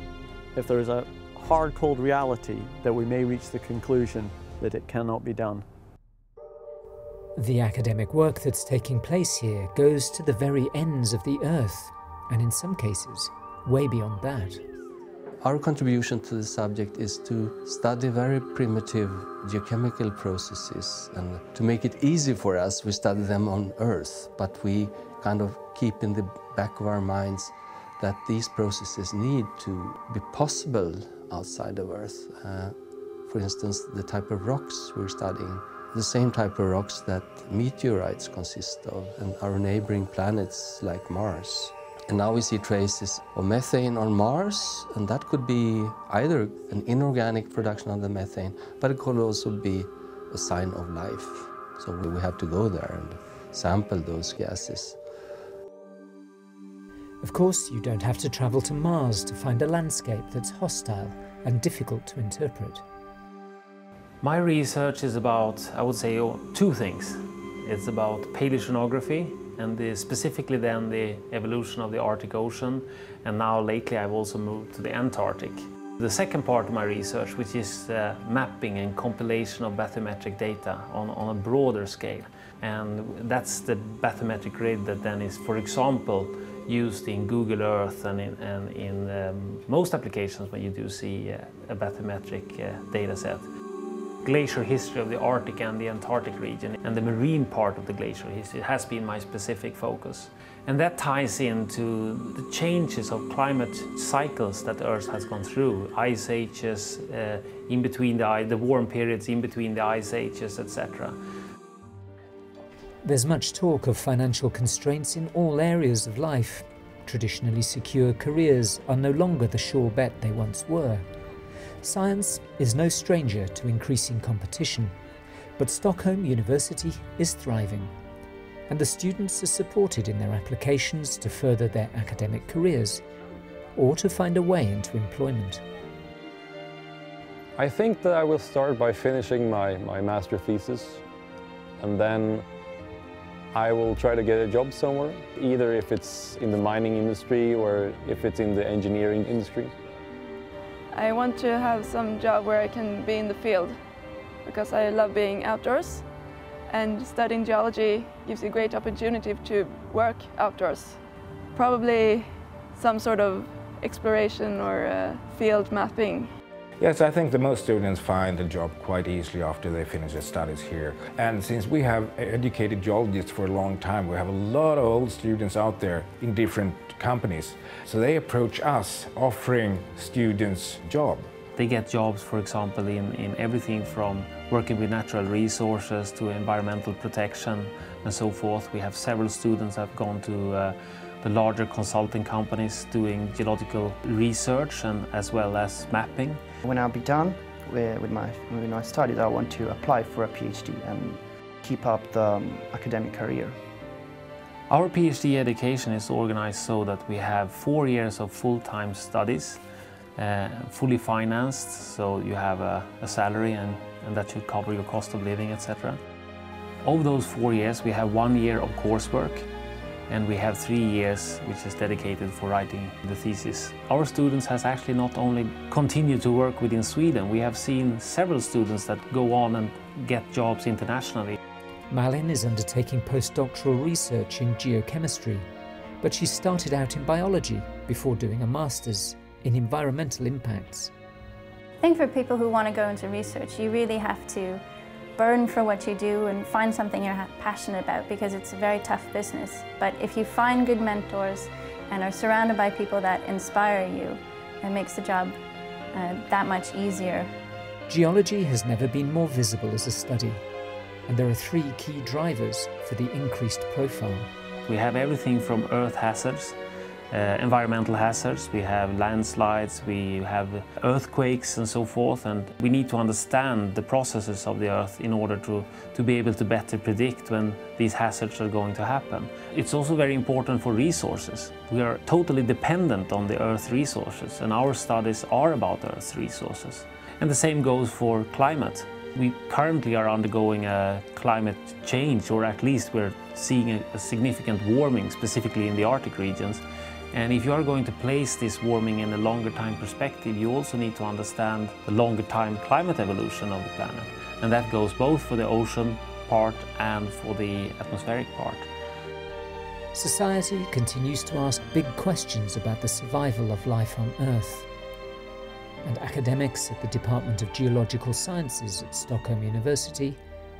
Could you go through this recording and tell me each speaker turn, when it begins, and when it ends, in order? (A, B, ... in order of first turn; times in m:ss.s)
0:00.5-0:05.7 A
0:07.4-0:14.6 B
0:15.4-0:32.8 C
0:33.3-0:55.0 C
0:57.2-1:02.8 B
1:04.2-1:33.5 D
1:34.2-1:51.2 D
1:53.0-2:01.0 B
2:01.8-2:04.9 B
2:05.6-2:07.9 B
2:08.7-2:13.0 B
2:13.8-2:15.6 B
2:17.6-2:21.0 E
2:21.8-2:22.5 E
2:23.5-2:29.7 E
2:30.9-2:33.8 F
2:34.4-2:36.0 F
2:36.7-2:41.0 F
2:41.6-2:46.3 F
2:46.8-3:01.3 G
3:01.6-3:16.4 D
3:16.6-3:23.6 H
3:24.7-3:29.6 D
3:30.2-3:36.0 D
3:36.8-3:39.5 D
3:40.1-3:51.4 D
3:51.9-3:55.5 B
3:56.0-4:00.9 B
4:01.8-4:04.6 I
4:05.2-4:15.4 I
4:15.9-4:17.3 I
4:17.9-4:20.4 B
4:21.1-4:24.3 B
4:24.6-4:26.6 D
4:27.1-4:56.6 D
4:57.1-5:08.7 D
5:09.9-5:14.7 B
5:15.8-5:20.2 B